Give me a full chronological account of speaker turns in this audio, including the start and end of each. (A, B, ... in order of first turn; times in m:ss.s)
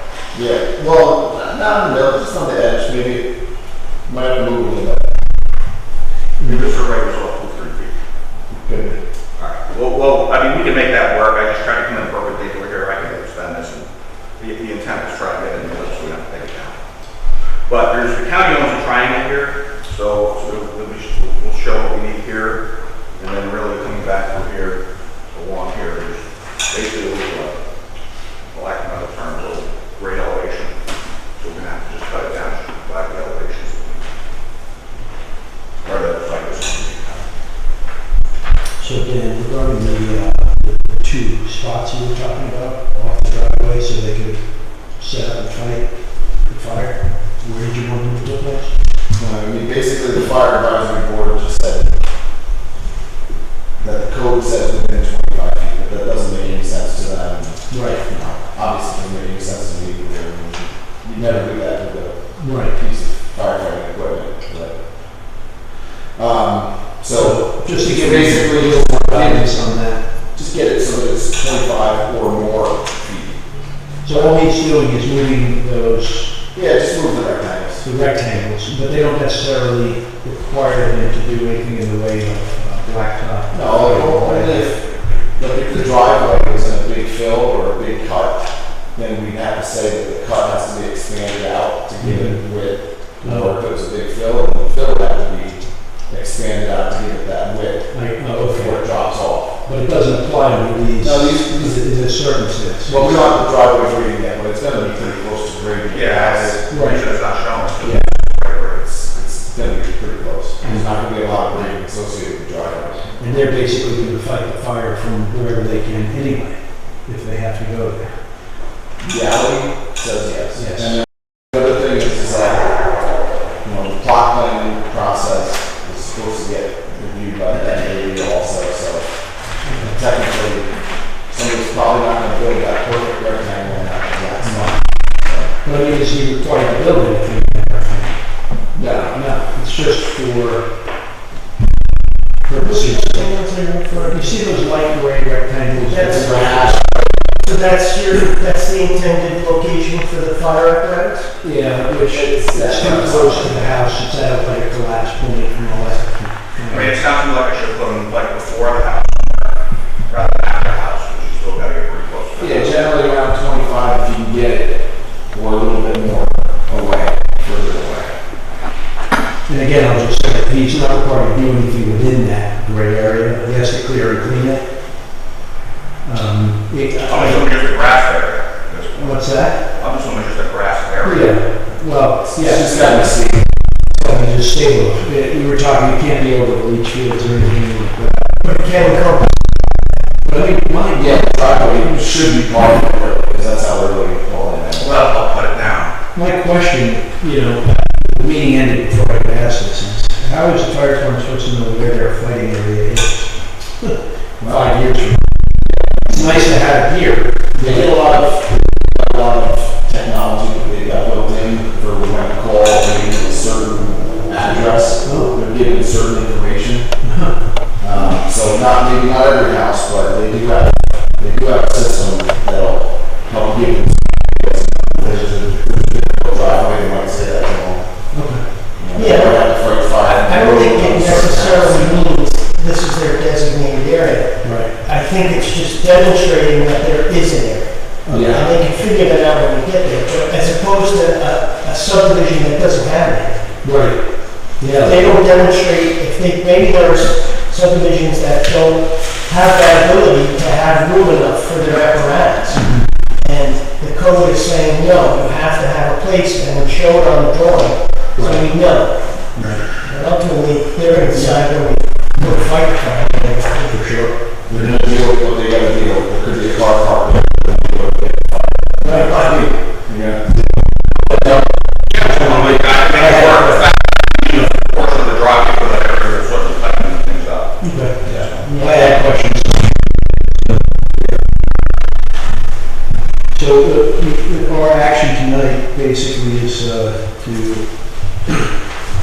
0:00.3-0:03.3 A
0:04.0-0:05.2 A
0:06.4-0:06.7 B
0:06.4-0:07.9 C
0:08.5-0:09.0 A
0:09.4-0:16.8 C
0:17.7-0:22.6 C
0:23.2-0:27.6 C
0:28.5-0:30.7 C
0:31.4-0:34.0 C
0:35.8-0:37.3 C
0:38.8-0:48.8 B
0:49.2-0:52.0 A
0:53.8-1:05.5 A
0:57.7-0:58.0 B
1:02.4-1:02.8 B
1:06.2-1:09.6 A
1:07.1-1:10.0 B
1:10.3-1:13.4 A
1:14.0-1:16.4 B
1:14.1-1:14.5 A
1:16.5-1:17.8 A
1:17.8-1:24.8 B
1:23.5-1:39.6 A
1:32.0-1:32.4 B
1:33.2-1:33.6 B
1:37.9-1:38.8 B
1:39.6-1:43.2 B
1:41.0-1:41.8 A
1:42.9-1:46.6 A
1:45.9-1:48.8 C
1:46.7-1:47.0 B
1:47.8-1:48.1 A
1:48.7-1:53.1 A
1:53.2-1:58.2 B
1:59.0-2:02.8 A
2:00.6-2:01.0 B
2:03.6-2:15.6 A
2:09.6-2:10.0 B
2:14.4-2:14.8 B
2:15.6-2:20.7 B
2:18.8-2:19.2 A
2:22.4-2:23.4 B
2:22.6-2:24.5 D
2:23.9-2:26.8 B
2:25.9-2:26.7 D
2:26.0-2:26.9 A
2:27.4-2:31.3 D
2:31.4-2:37.0 B
2:32.1-2:33.8 A
2:36.7-2:39.6 C
2:40.1-2:42.8 C
2:42.4-2:48.1 A
2:49.5-2:54.7 B
2:56.0-2:57.5 B
2:57.1-3:01.3 C
2:59.0-2:59.6 B
3:01.0-3:03.2 B
3:02.3-3:03.5 A
3:04.0-3:08.3 B
3:08.4-3:09.7 D
3:10.2-3:11.8 B
3:10.8-3:14.9 A
3:14.8-3:16.0 C
3:16.1-3:25.2 B
3:24.4-3:24.7 A
3:26.1-3:27.8 B
3:27.6-3:36.9 A
3:35.0-3:35.3 B
3:37.0-3:37.4 B
3:37.8-3:48.2 A
3:48.1-3:48.4 B
3:48.8-3:52.0 A
3:49.0-4:03.5 D
3:54.4-3:54.8 B
3:58.0-3:58.4 B
3:58.1-3:58.4 A
4:03.6-4:05.2 B
4:04.7-4:23.8 D
4:12.6-4:12.9 B
4:18.2-4:18.4 B
4:19.4-4:19.8 B
4:23.7-4:24.1 B
4:24.5-4:29.2 A
4:28.8-4:29.5 B
4:28.8-4:29.4 D
4:29.9-4:30.4 A
4:31.1-4:31.4 B
4:31.9-4:38.7 C
4:32.0-4:33.7 B
4:37.6-4:39.7 B
4:38.5-4:39.0 D
4:43.3-4:48.5 B